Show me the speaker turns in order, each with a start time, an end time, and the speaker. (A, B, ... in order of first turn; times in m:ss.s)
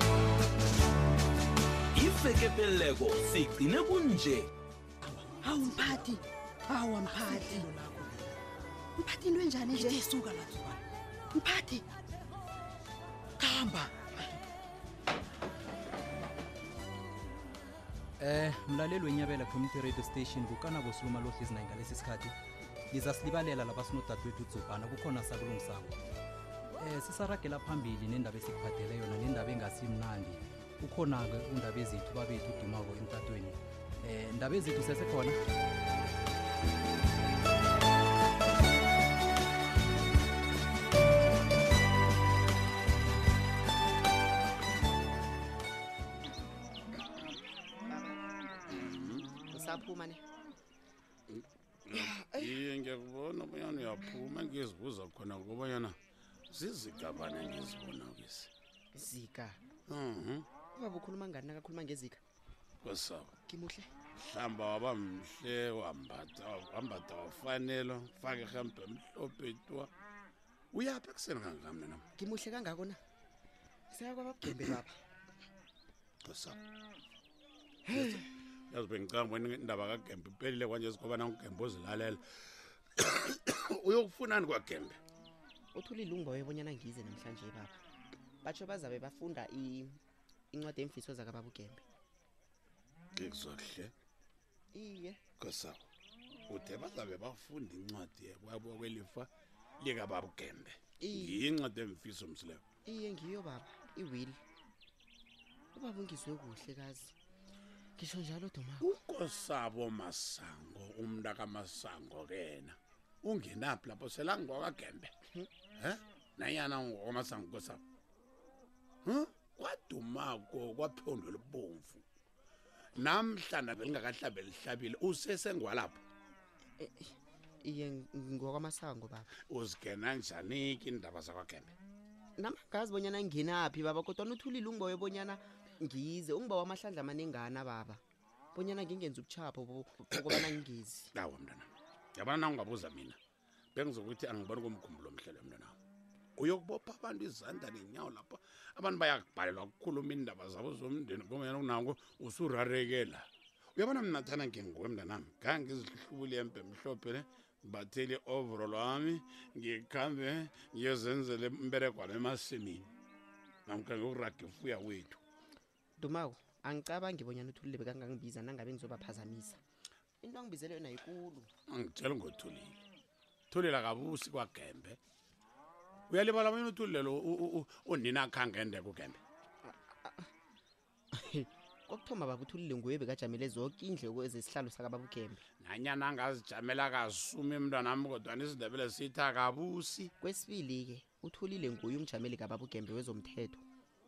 0:02.0-0:04.5 A
0:05.0-0:06.2 B
0:05.4-0:07.7 C
0:06.8-0:08.3 B
0:09.0-0:10.0 C
0:09.7-0:10.8 B
0:11.3-0:11.8 C
0:13.4-0:14.1 B
0:18.2-0:22.4 B
0:22.9-0:26.0 B
0:26.8-0:35.4 B
0:47.9-0:48.2 D
0:48.7-0:49.3 E
0:49.5-0:50.2 D
0:51.3-0:56.0 E
0:51.9-0:52.6 D
0:56.5-0:58.5 E
0:58.9-0:59.6 D
0:59.9-1:00.5 E
1:00.8-1:02.2 D
1:02.8-1:03.3 E
1:03.5-1:03.9 D
1:04.2-1:09.9 E
1:10.7-1:12.0 E
1:12.2-1:13.0 D
1:13.9-1:14.9 D
1:16.2-1:16.6 E
1:17.9-1:18.2 D
1:17.9-1:22.2 E
1:23.0-1:25.0 E
1:25.7-1:27.8 D
1:28.4-1:30.0 D
1:30.5-1:31.8 D
1:33.2-1:33.9 E
1:34.7-1:35.2 D
1:35.4-1:35.9 E
1:36.5-1:39.3 E
1:39.8-1:42.6 E
1:41.0-1:41.4 D
1:42.8-1:44.4 D
1:45.8-1:47.1 D
1:48.0-1:48.9 D
1:48.8-1:55.1 E
1:55.8-1:57.8 E
1:59.0-2:02.0 E
2:03.0-2:06.0 E
2:06.8-2:09.3 D
2:09.5-2:11.7 E
2:12.4-2:18.0 D
2:18.5-2:21.1 D
2:21.2-2:23.2 E
2:23.8-2:25.8 E
2:26.4-2:42.8 E
2:43.7-2:45.2 E
2:46.0-2:49.6 D
2:50.2-2:51.5 D
2:51.7-2:52.8 E
2:53.5-2:55.0 E
2:56.1-2:59.2 E
2:59.6-3:00.3 D
3:01.1-3:05.4 D
3:05.6-3:10.1 E
3:10.2-3:13.6 D